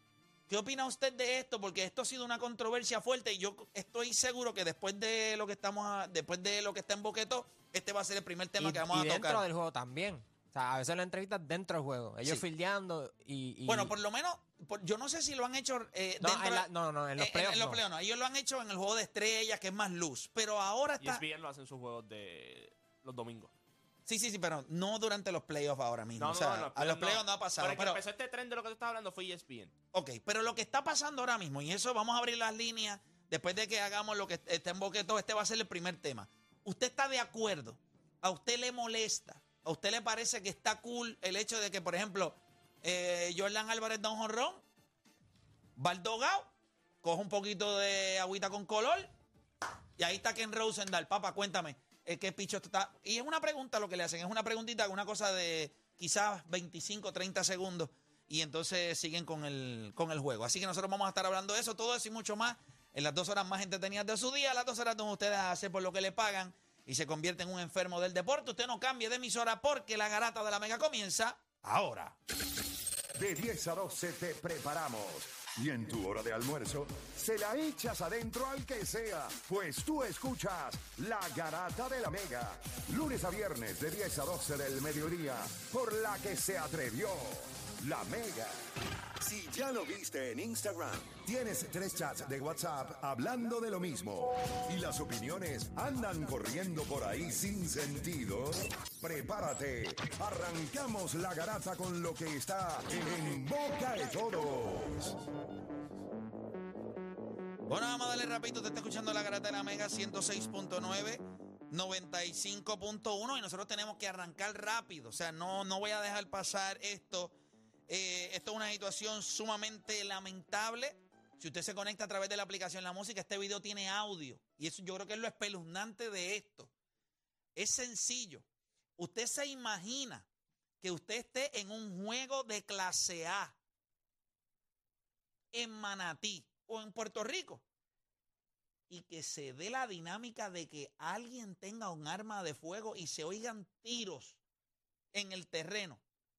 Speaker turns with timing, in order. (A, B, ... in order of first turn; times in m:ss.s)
0:00.5-0:09.4 A
0:08.6-0:13.9 B
0:13.7-0:16.6 A
0:16.2-0:17.8 B
0:17.2-0:21.2 A
0:21.0-0:23.5 C
0:24.0-0:28.0 A
0:26.2-0:29.7 C
0:29.9-0:44.6 A
0:45.8-0:46.5 A
0:47.0-0:49.1 A
0:50.0-1:12.2 A
1:13.1-1:28.6 D
1:29.2-1:45.1 D
1:47.7-1:57.4 A
1:57.9-2:06.7 A
2:07.6-2:08.4 A
2:09.0-2:10.2 A
2:10.8-2:13.6 A
2:15.5-2:17.6 A
2:18.9-2:24.4 A
2:25.1-2:26.0 A